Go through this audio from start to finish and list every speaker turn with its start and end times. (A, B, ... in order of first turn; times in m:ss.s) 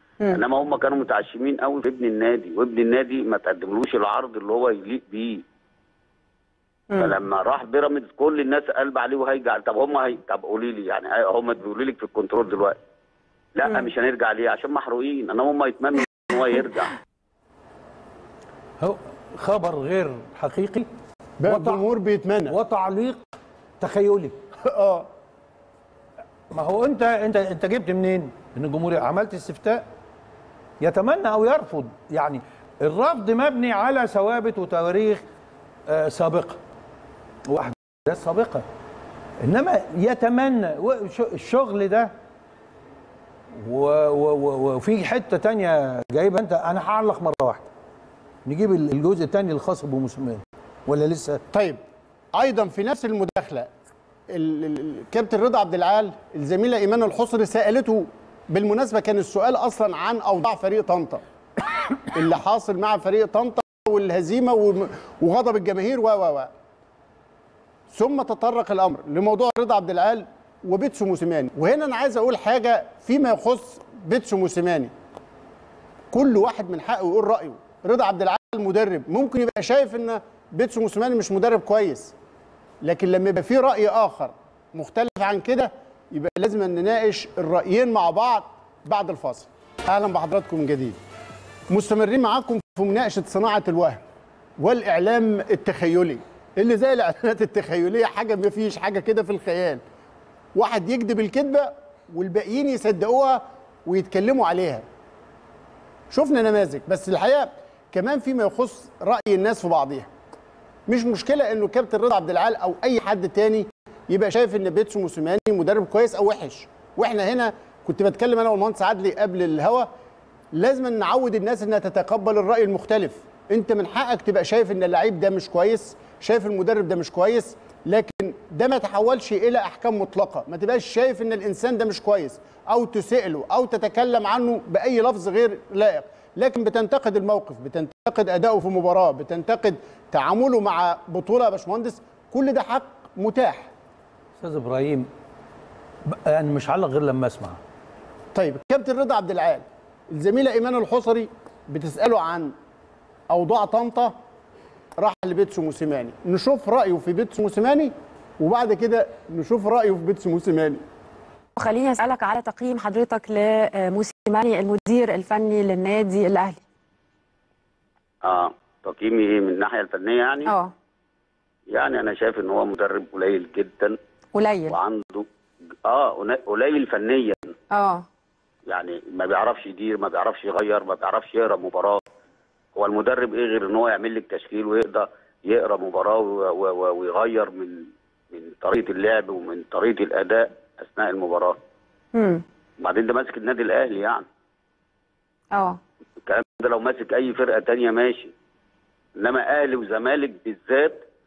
0:00.3-0:05.4 A
0:07.0-0:12.8 A
0:13.6-0:16.9 A
0:18.8-0:20.9 B
0:21.4-0:22.6 C
0:21.5-0:21.8 B
0:22.5-0:23.3 B
0:23.8-0:24.4 B
0:24.6-0:25.1 C
0:26.5-0:29.8 B
0:30.8-0:35.2 B
0:35.9-0:36.6 B
0:37.5-0:38.6 B
0:39.4-0:42.1 B
0:43.6-0:47.7 B
0:48.5-0:51.4 B
0:51.5-0:51.8 C
0:52.4-0:53.7 C
0:54.3-1:01.2 C
1:02.1-1:06.5 C
1:07.9-1:14.9 C
1:16.1-1:22.1 C
1:22.8-1:31.0 C
1:31.7-1:34.0 C
1:34.6-1:39.8 C
1:40.6-1:44.8 C
1:46.1-1:50.1 C
1:50.9-1:59.9 C
2:00.5-2:23.7 C
2:24.4-2:25.1 B
2:26.1-2:27.6 B
2:28.3-2:32.5 C
2:33.3-2:34.1 C
2:35.0-2:40.8 C
2:41.6-2:46.6 D
2:48.2-2:50.5 A
2:50.5-2:50.7 D
2:51.7-2:54.0 A
2:54.4-2:54.8 D
2:54.7-2:55.3 A
2:55.8-2:57.4 A
2:57.7-2:58.0 D
2:58.7-3:02.0 A
3:02.8-3:11.6 A
3:12.1-3:12.4 D
3:12.8-3:14.2 A
3:15.5-3:15.8 D
3:16.2-3:18.3 A
3:19.2-3:21.0 A